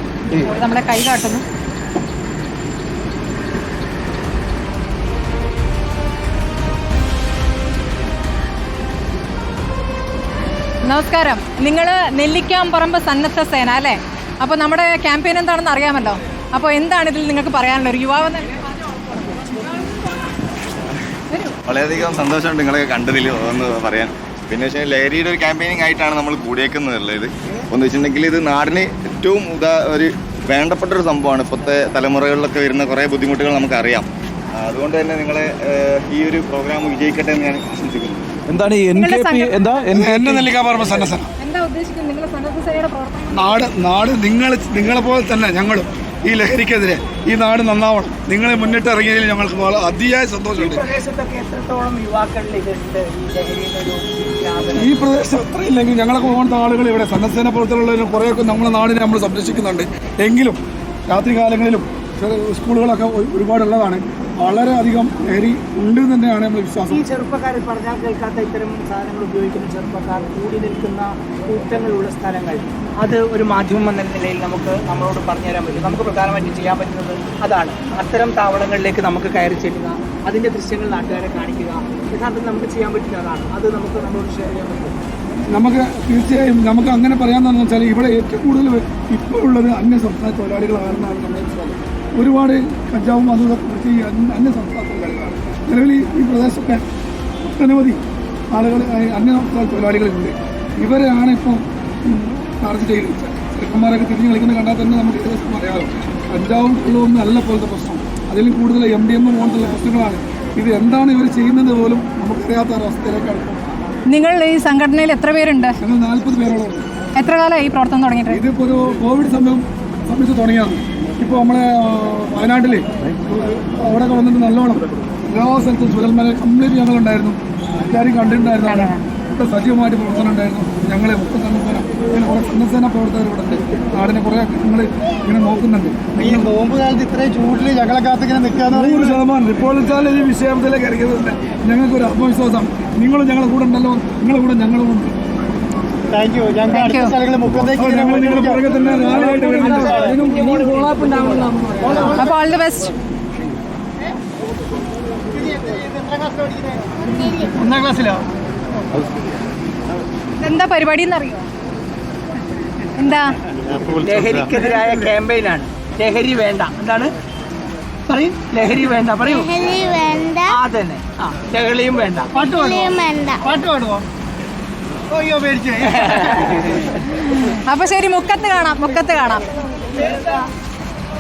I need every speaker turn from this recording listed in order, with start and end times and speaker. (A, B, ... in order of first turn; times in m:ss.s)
0:00.4-0:01.4 A
0:10.9-0:18.6 A
0:21.6-0:34.1 B
0:34.6-0:38.3 B
0:38.5-0:40.6 C
0:39.0-0:39.5 A
0:39.9-0:41.3 D
0:41.4-0:43.6 A
0:43.3-0:50.8 D
0:50.6-0:55.0 E
0:54.8-1:07.0 D
1:06.9-1:25.0 E
1:25.5-1:36.8 D
1:37.4-1:53.6 D
1:54.1-1:55.8 A
1:55.8-1:56.9 D
1:57.2-1:58.4 A
1:58.3-2:16.4 D
2:08.6-2:09.0 A
2:16.2-2:19.2 F
2:18.7-2:25.2 D
2:26.1-2:28.6 F
2:26.7-2:27.2 A
2:27.7-2:32.2 D
2:29.1-2:31.2 E
2:32.2-2:33.0 A
2:35.3-2:37.0 F
2:37.5-2:38.2 E
2:40.4-2:41.5 A
2:43.0-2:43.3 A
2:43.8-2:47.1 E
2:48.1-2:49.5 E
2:49.2-2:50.6 G
2:50.5-2:52.6 E
2:52.4-2:53.4 G
2:53.6-2:53.9 F
2:55.1-2:56.0 F
2:56.0-2:56.8 E
2:57.2-2:59.4 A